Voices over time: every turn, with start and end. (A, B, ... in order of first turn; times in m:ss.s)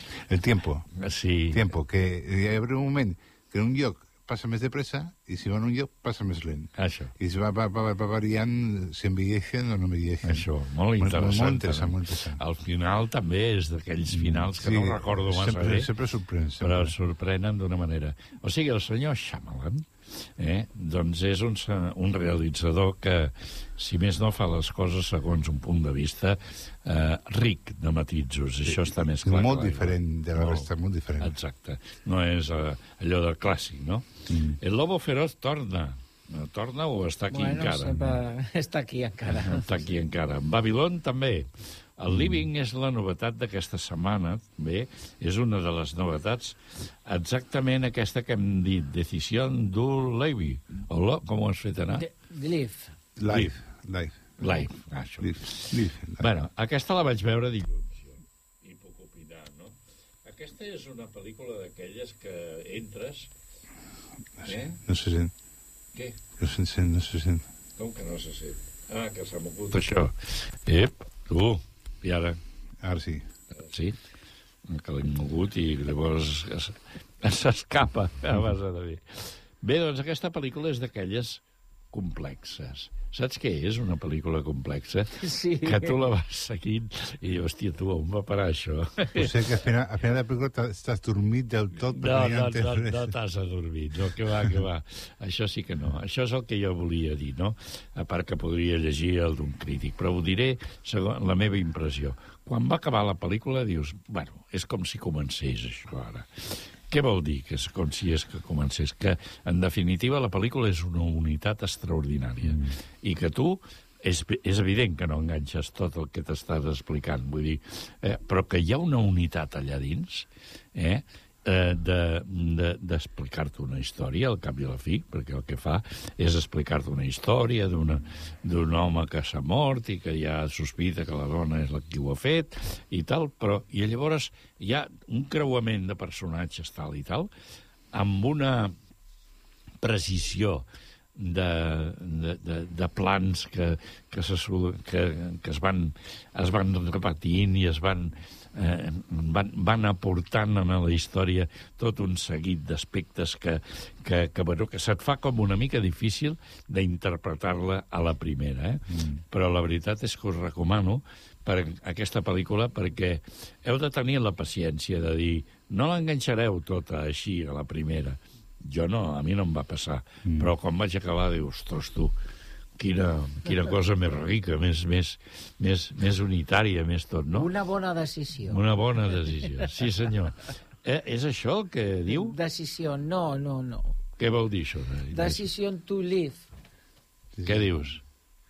0:00.3-0:00.9 A
0:01.0-0:01.7 B
0:01.5-0:10.5 A
0:06.8-0:07.1 B
0:10.2-0:15.9 B
0:11.0-0:12.4 A
0:14.1-0:16.9 A
0:16.6-0:19.9 B
0:20.4-0:34.1 B
0:28.7-0:31.4 A
0:34.3-0:34.6 A
0:34.6-0:38.2 B
0:37.3-0:39.7 C
0:39.3-0:52.0 B
0:42.1-0:42.5 A
0:52.0-0:52.9 C
0:53.2-0:54.4 A
0:54.4-1:03.3 B
0:55.2-0:56.3 A
1:04.4-1:05.3 A
1:04.5-1:04.8 B
1:06.4-1:07.5 A
1:07.8-1:12.4 B
1:12.8-1:13.2 A
1:13.7-1:14.0 B
1:14.7-1:21.4 B
1:21.9-1:29.3 B
1:25.2-1:25.9 C
1:29.2-1:33.1 A
1:31.9-2:17.3 B
1:52.4-1:52.7 A
2:17.9-2:18.8 B
2:19.8-2:20.7 B
2:21.2-2:52.1 B
2:38.9-2:39.2 A
2:50.3-2:50.5 A
2:52.8-2:57.5 B
2:57.3-2:58.6 C
2:58.5-3:02.4 B
3:02.1-3:04.0 C
3:04.2-3:05.5 B
3:05.1-3:06.5 C
3:07.3-3:07.9 A
3:07.4-3:08.0 B